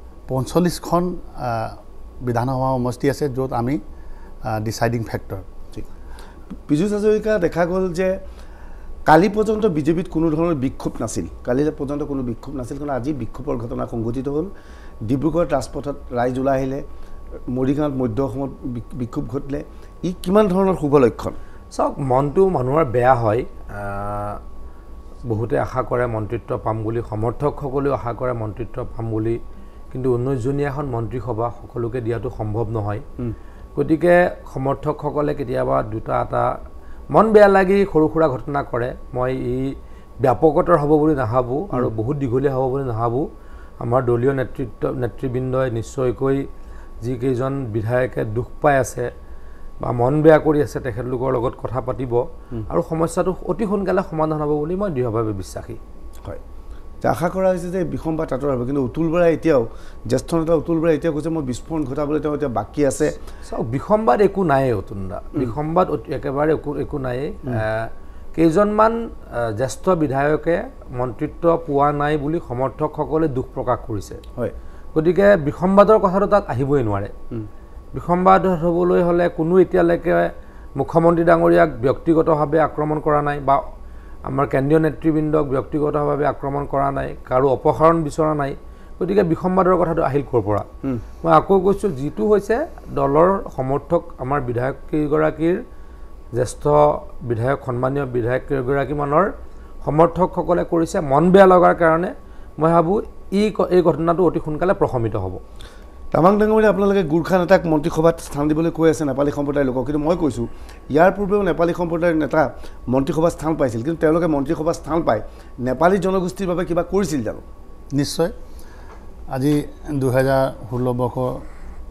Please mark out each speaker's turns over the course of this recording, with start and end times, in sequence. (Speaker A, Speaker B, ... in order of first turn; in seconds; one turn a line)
Speaker A: 0.3-3.8
Speaker A: 4.5-5.4
Speaker B: 6.7-8.2
Speaker B: 9.1-14.5
Speaker B: 15.1-16.8
Speaker B: 17.5-21.4
Speaker C: 21.7-24.4
Speaker C: 25.3-29.4
Speaker C: 29.9-33.0
Speaker C: 33.8-36.5
Speaker C: 37.1-43.3
Speaker C: 43.8-46.5
Speaker C: 47.0-49.1
Speaker C: 49.8-55.8
Speaker B: 57.0-63.1
Speaker C: 63.5-69.0
Speaker C: 69.6-74.2
Speaker C: 74.9-77.1
Speaker C: 77.9-83.6
Speaker C: 84.3-90.7
Speaker C: 91.2-95.6
Speaker C: 96.4-99.3
Speaker C: 99.8-105.4
Speaker B: 106.1-117.4
Speaker A: 117.9-118.3
Speaker A: 119.3-121.4